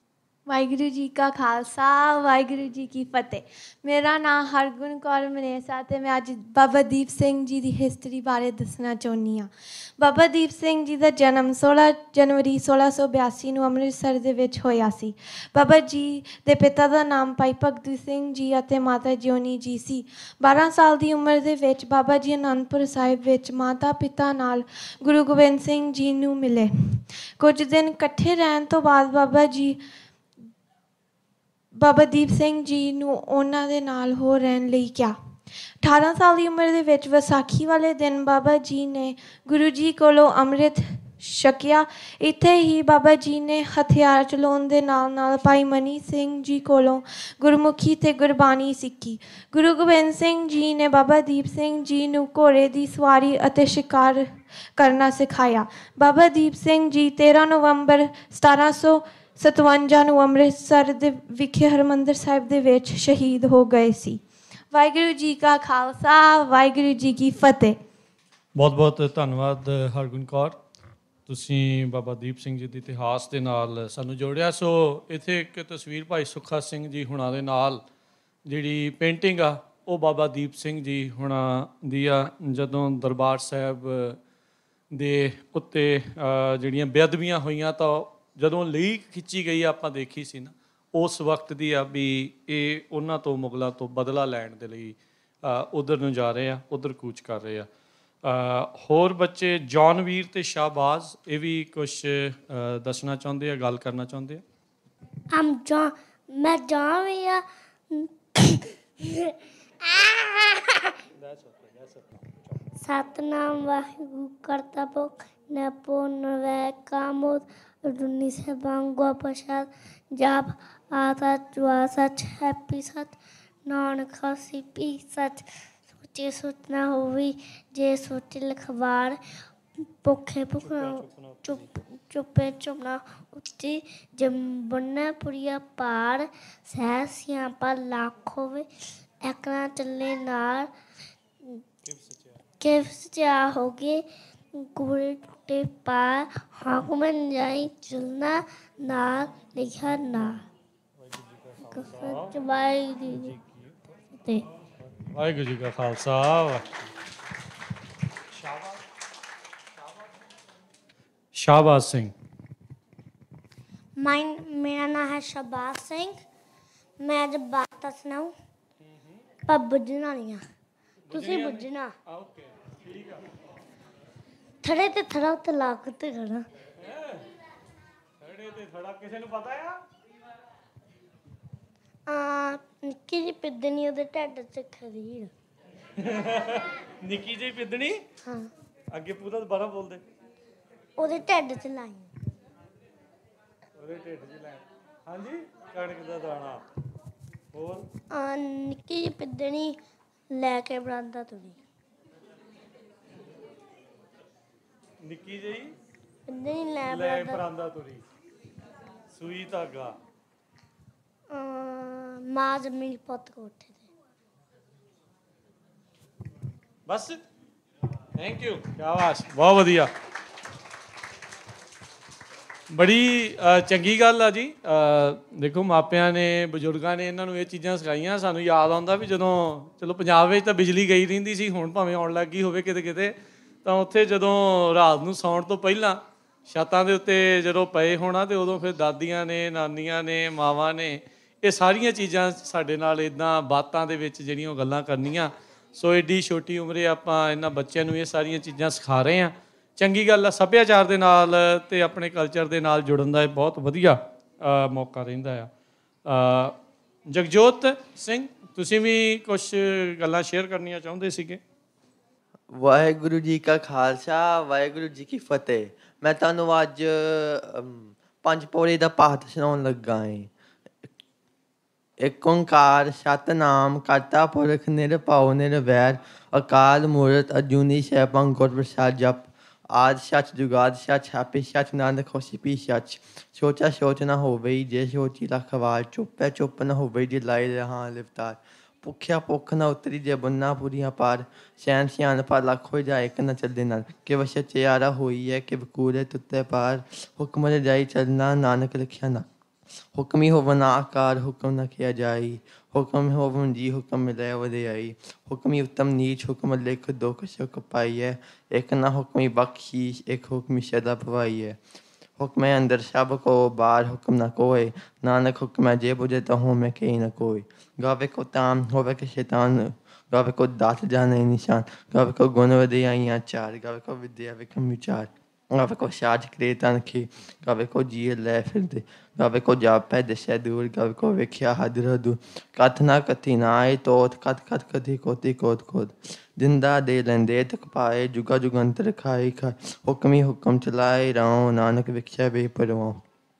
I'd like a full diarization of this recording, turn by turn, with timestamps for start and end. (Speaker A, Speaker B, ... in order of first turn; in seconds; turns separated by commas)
Speaker A: 0.5-29.8, Speaker A: 31.8-35.2, Speaker A: 35.8-67.8, Speaker B: 68.6-70.6, Speaker B: 71.3-77.8, Speaker B: 78.5-84.2, Speaker B: 84.9-97.7, Speaker B: 98.2-104.4, Speaker C: 105.3-110.9, Speaker B: 111.2-112.6, Speaker C: 112.8-125.5, Speaker C: 126.0-129.2, Speaker C: 130.0-138.7, Speaker B: 130.6-131.7, Speaker C: 139.2-140.7, Speaker B: 141.8-142.4, Speaker C: 142.6-144.0, Speaker C: 144.6-150.4, Speaker B: 151.0-152.4, Speaker C: 151.7-153.3, Speaker B: 153.1-153.7, Speaker B: 155.0-156.7, Speaker B: 158.3-158.8, Speaker B: 161.3-162.1, Speaker C: 164.0-166.2, Speaker C: 167.0-168.3, Speaker B: 168.8-169.2, Speaker C: 169.5-170.4, Speaker B: 171.1-173.3, Speaker C: 171.1-171.9, Speaker C: 174.6-176.4, Speaker B: 176.8-177.2, Speaker B: 178.2-179.8, Speaker C: 182.1-185.3, Speaker B: 186.0-188.1, Speaker B: 188.9-190.0, Speaker C: 191.0-192.1, Speaker B: 193.8-196.6, Speaker B: 197.5-197.9, Speaker C: 198.1-199.8, Speaker C: 200.3-201.6, Speaker B: 205.0-205.7, Speaker C: 206.3-207.4, Speaker B: 206.8-208.0, Speaker B: 209.1-210.0, Speaker C: 211.3-213.9, Speaker B: 216.9-217.2, Speaker B: 218.2-219.9, Speaker B: 222.7-255.5, Speaker B: 256.1-256.6, Speaker B: 257.1-261.4, Speaker D: 262.5-270.3, Speaker D: 272.0-299.3, Speaker D: 299.9-311.6, Speaker D: 312.2-343.0